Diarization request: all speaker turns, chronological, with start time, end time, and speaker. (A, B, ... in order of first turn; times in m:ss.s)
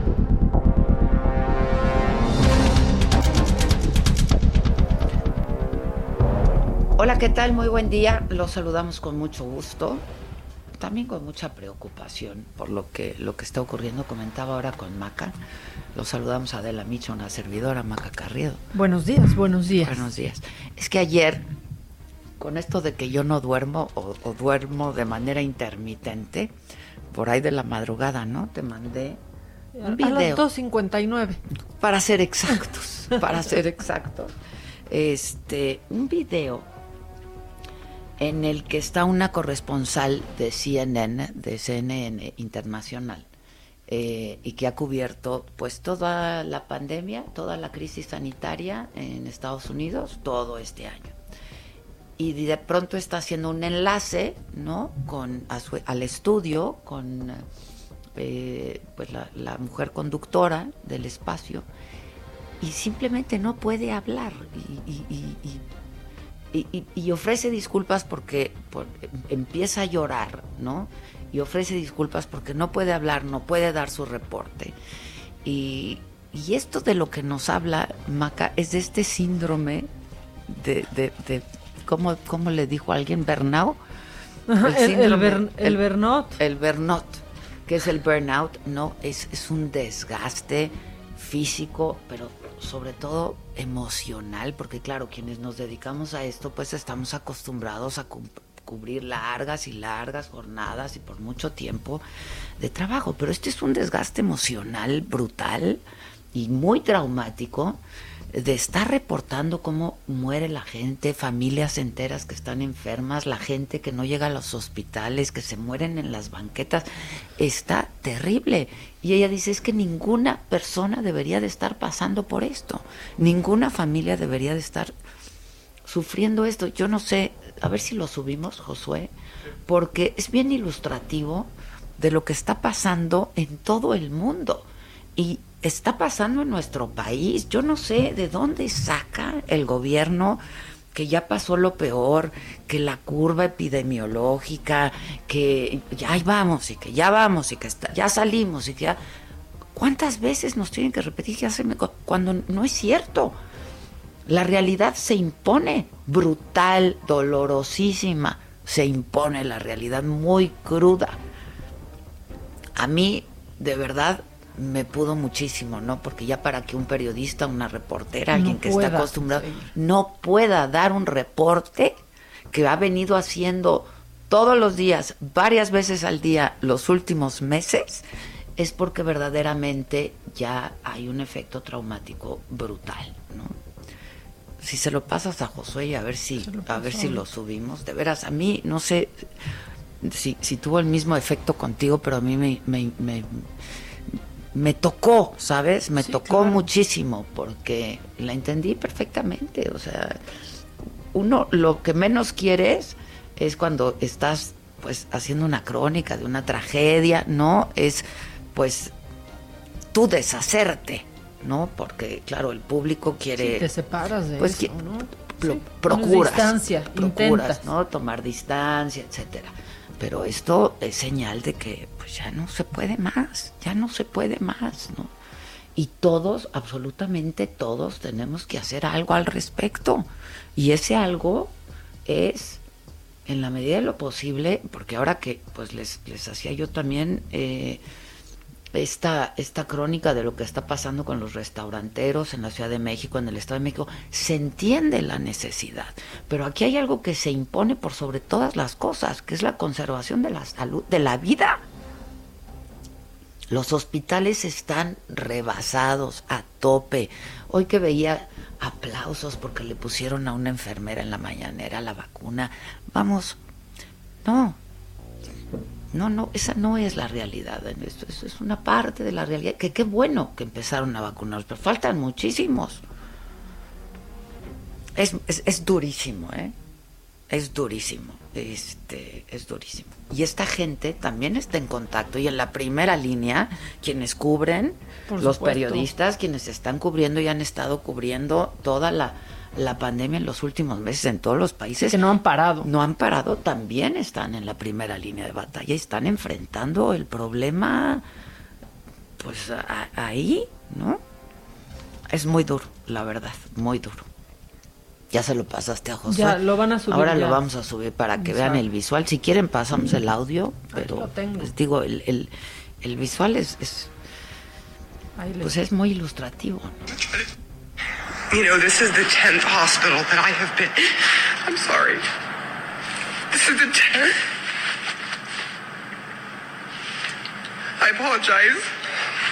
0:07.0-0:10.0 A
0:10.8-0:15.4 A
0:15.9-0:18.6 A
0:18.7-0:20.0 B
0:19.8-0:21.4 A
0:22.4-0:26.5 A
0:27.1-0:29.2 A
0:29.8-0:31.4 B
0:29.8-0:30.4 A
0:31.8-0:34.3 A
0:34.9-0:36.7 A
0:38.2-0:43.3 A
0:43.9-0:51.2 A
0:52.2-0:57.4 A
0:58.2-1:01.7 A
1:02.6-1:05.6 A
1:06.5-1:14.8 A
1:15.4-1:19.9 A
1:20.5-1:23.8 A
1:24.5-1:26.4 B
1:24.6-1:25.8 A
1:26.4-1:42.0 A
1:42.6-1:45.8 A
1:46.3-2:04.9 A
2:05.8-2:09.1 A
2:09.7-2:29.0 A
2:29.8-2:33.4 A
2:34.3-2:41.2 A
2:42.8-2:52.0 A
2:48.3-2:49.7 B
2:52.5-2:58.0 A
2:58.6-3:03.6 A
3:04.6-3:09.3 A
3:06.4-3:07.2 B
3:10.0-3:13.5 A
3:14.1-3:20.2 A
3:16.0-3:16.6 B
3:21.1-3:28.9 A
3:29.9-3:33.7 A
3:33.4-3:37.6 B
3:34.4-3:45.1 A
3:45.8-3:51.5 A
3:52.1-3:52.6 A
3:53.3-3:57.8 A
3:58.7-4:11.6 A
4:13.5-4:23.4 A
4:24.2-4:24.6 A
4:25.9-4:32.8 A
4:35.0-4:36.6 A
4:37.3-4:52.0 A
4:45.1-4:45.9 B
4:51.8-4:52.7 B
4:52.6-4:58.0 A
4:59.2-5:01.0 A
5:02.1-5:04.1 A
5:05.1-5:13.9 A
5:06.1-5:07.4 B
5:08.2-5:08.6 B
5:10.7-5:11.5 B
5:15.2-5:15.5 B
5:15.4-5:16.8 A
5:18.3-5:22.0 C
5:23.3-5:24.2 C
5:27.8-5:28.7 C